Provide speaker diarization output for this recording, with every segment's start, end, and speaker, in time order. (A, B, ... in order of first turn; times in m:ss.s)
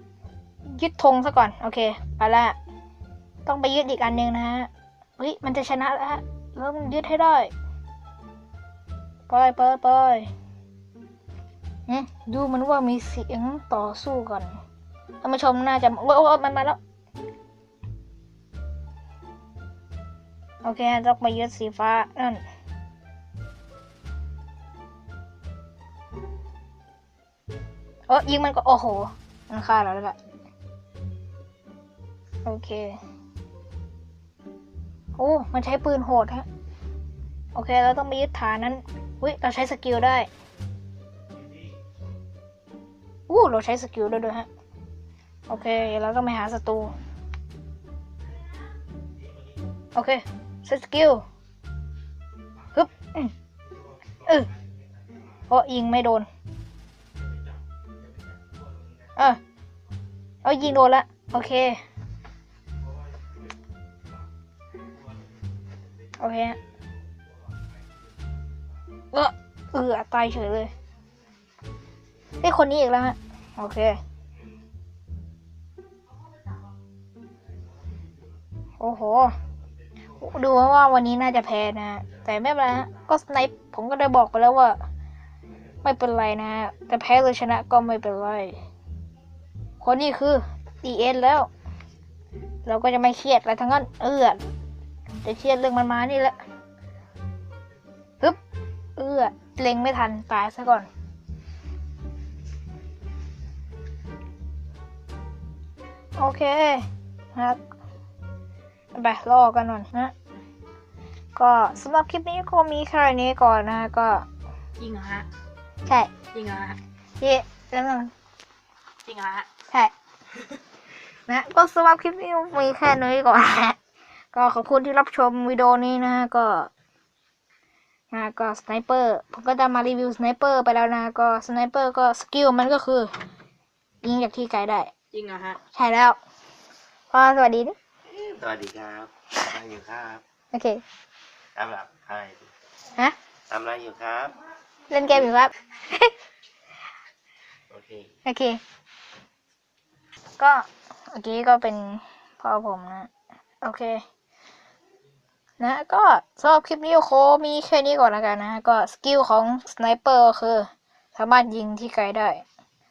0:00.7-0:02.6 A
0:03.4-0:07.5 A
0:09.3-0:10.3 A
0:11.9-0:14.6 A
0:15.2-0:16.8 A
0:20.6-0:22.4 A
0:28.1-0:30.2 A
0:32.4-0:33.0 A
0:35.2-0:36.5 A
0:37.6-0:40.3 A
0:43.3-0:44.5 A
0:45.5-0:46.9 A
0:50.0-0:51.2 A
0:52.7-0:53.3 A
0:54.2-0:54.5 A
0:55.5-0:56.3 A
0:59.2-0:59.4 A
1:00.4-1:01.8 A
1:06.2-1:06.6 A
1:09.1-1:10.7 A
1:12.4-1:14.0 A
1:18.8-1:19.4 A
1:20.2-1:24.8 A
1:25.8-1:28.6 A
1:29.8-1:31.5 A
1:32.6-1:34.4 A
1:35.2-1:36.4 A
1:39.0-1:40.9 A
1:46.2-1:47.6 A
1:49.0-1:50.1 A
1:51.4-1:54.3 A
1:54.8-1:55.3 B
1:55.9-1:56.2 A
1:56.3-1:56.8 B
1:57.2-1:58.1 A
1:59.0-1:59.5 B
2:01.3-2:03.8 A
2:04.3-2:06.7 A
2:08.1-2:13.1 A
2:14.0-2:14.9 A
2:15.1-2:15.6 B
2:15.6-2:16.2 A
2:17.1-2:17.8 A
2:18.1-2:20.2 C
2:20.5-2:20.8 A
2:21.6-2:22.5 C
2:23.5-2:24.4 C
2:24.9-2:26.1 A
2:27.7-2:28.1 C
2:28.2-2:28.6 A
2:30.4-2:33.1 A
2:33.6-2:34.0 A
2:35.6-2:42.4 A